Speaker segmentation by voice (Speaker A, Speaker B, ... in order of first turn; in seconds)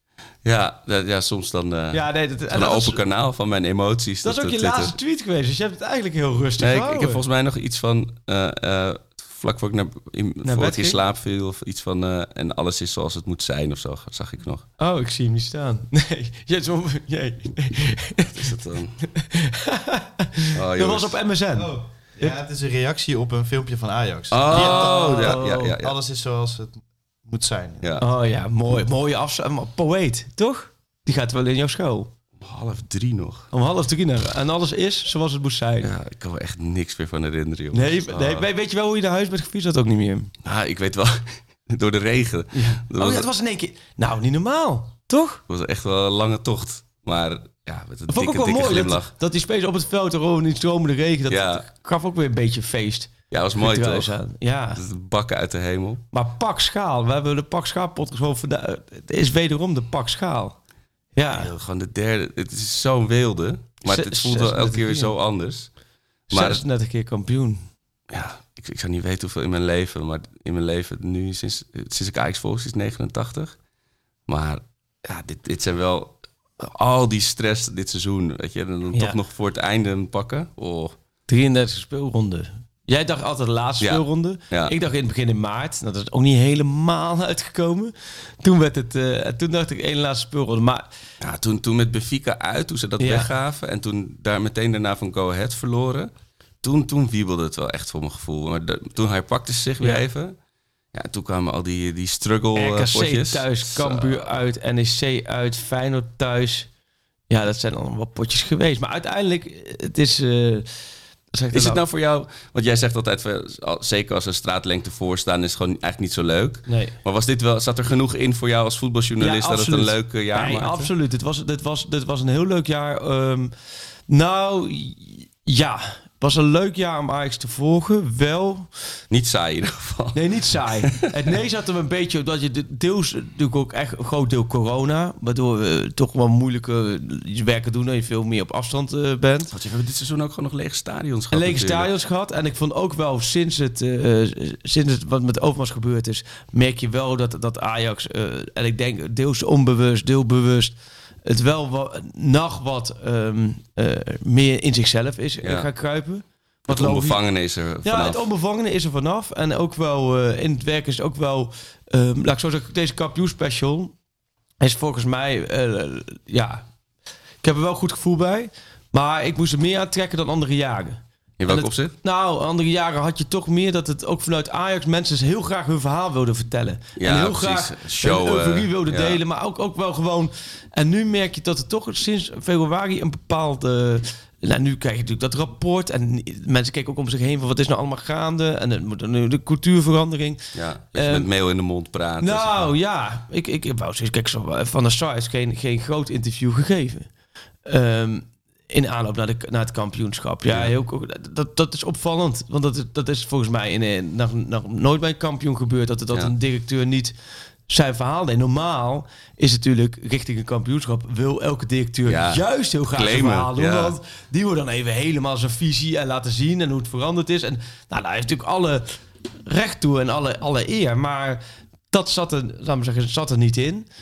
Speaker A: 0.4-5.0, 6.6-14.7, 18.4-18.9, 20.6-21.2, 24.3-25.9, 27.8-28.1, 32.4-33.5, 35.8-38.5, 40.4-43.3, 45.5-49.1, 51.3-51.6, 53.3-54.2, 54.8-56.0, 61.3-65.8, 66.3-66.6, 68.1-73.6, 74.3-81.0, 83.8-84.7, 91.2-96.1, 96.6-100.4, 100.9-104.3, 111.5-120.9, 129.1-130.2, 139.5-141.9, 155.4-155.7, 156.7-158.2, 171.4-171.9, 177.0-179.2, 190.5-192.7, 200.5-200.7, 212.1-214.0
Speaker B: 1.9-3.0, 4.2-7.2, 10.4-11.0, 14.8-18.5, 19.2-22.4, 24.5-25.8, 28.0-32.1, 33.5-35.9, 37.7-40.3, 42.5-45.4, 48.1-54.8, 56.1-60.6, 61.1-61.5, 63.9-65.2, 66.3-67.7, 81.3-90.9, 93.0-93.3, 102.5-106.7, 107.3-110.7, 111.3-111.8, 116.7-117.0, 119.2-123.5, 124.1-128.7, 130.1-139.5, 141.3-157.3, 157.8-163.9, 164.6-166.7, 167.4-191.3, 192.2-197.1, 197.7-207.2, 207.7-221.4, 221.9-223.9
Speaker C: 21.6-27.9